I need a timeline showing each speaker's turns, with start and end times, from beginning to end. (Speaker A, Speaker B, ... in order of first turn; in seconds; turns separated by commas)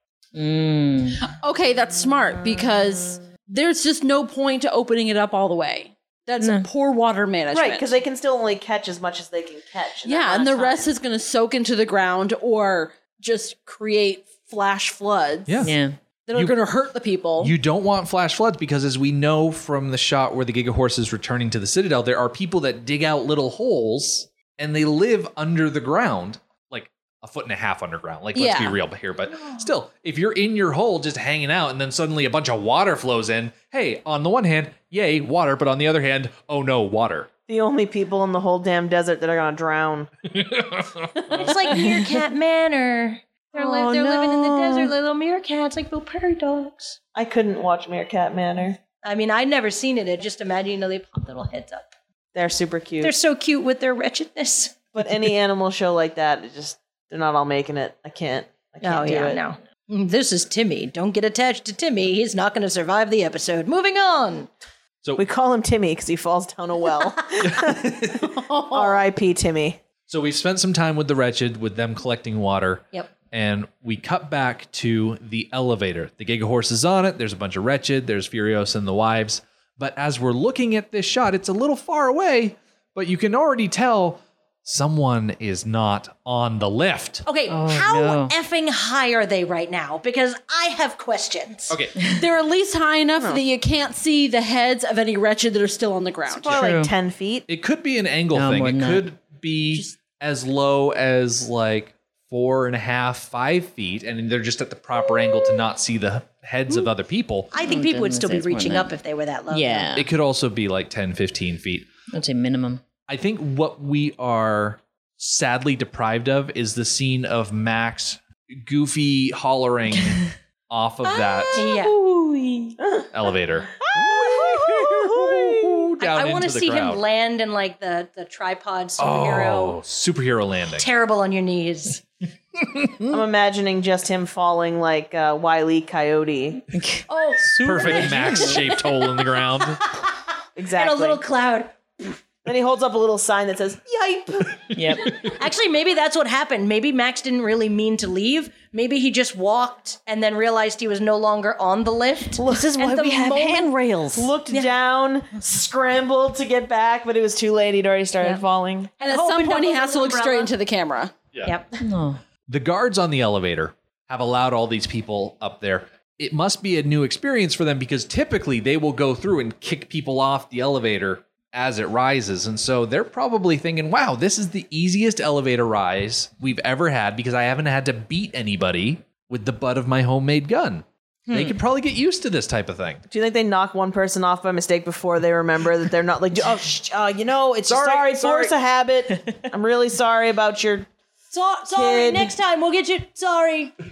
Speaker A: 0.3-1.2, Speaker B: 1.2-8.0, Speaker A: 2.5-3.1, Speaker A: 6.4-6.7, Speaker C: 7.5-10.9, Speaker B: 10.0-15.7, Speaker D: 15.5-15.7, Speaker A: 15.6-15.9, Speaker B: 16.3-17.5, Speaker D: 17.4-37.3, Speaker B: 28.3-28.8, Speaker C: 37.5-40.1, Speaker D: 40.3-41.5, Speaker E: 41.3-47.0, Speaker C: 43.6-44.9, Speaker C: 47.1-48.8, Speaker E: 49.0-51.9, Speaker C: 52.3-53.1, Speaker E: 53.0-54.8, Speaker C: 54.9-59.4, Speaker E: 58.8-64.5, Speaker C: 65.2-67.9, Speaker D: 67.4-68.3, Speaker C: 68.7-69.8, Speaker D: 70.1-87.2, Speaker E: 87.2-91.8, Speaker A: 87.5-88.3, Speaker D: 91.7-92.0, Speaker B: 92.0-96.6, Speaker C: 96.3-97.5, Speaker A: 96.5-96.9, Speaker D: 97.5-107.5, Speaker A: 98.3-99.1, Speaker E: 107.5-109.9, Speaker A: 107.6-108.9, Speaker A: 109.5-110.1, Speaker D: 109.9-111.9, Speaker A: 112.1-112.8, Speaker D: 113.1-121.6, Speaker E: 121.5-122.7, Speaker C: 122.8-123.1, Speaker D: 123.1-127.0, Speaker C: 123.8-125.8, Speaker E: 126.0-129.8, Speaker D: 129.0-130.9, Speaker E: 130.8-132.0, Speaker D: 132.6-133.2, Speaker C: 133.1-136.6, Speaker A: 136.7-138.6, Speaker D: 137.6-139.8, Speaker C: 140.6-141.2, Speaker E: 140.7-142.2, Speaker C: 142.4-144.8, Speaker A: 144.7-145.2, Speaker E: 145.2-153.7, Speaker C: 152.4-152.7, Speaker A: 152.4-154.3, Speaker C: 154.1-158.9, Speaker E: 159.0-160.5, Speaker B: 159.0-161.1, Speaker D: 161.3-161.6, Speaker A: 161.8-162.2, Speaker D: 162.5-183.0, Speaker A: 181.3-181.6, Speaker C: 183.1-190.9, Speaker D: 187.7-188.5, Speaker A: 189.2-189.4, Speaker E: 191.3-193.7, Speaker C: 191.7-192.3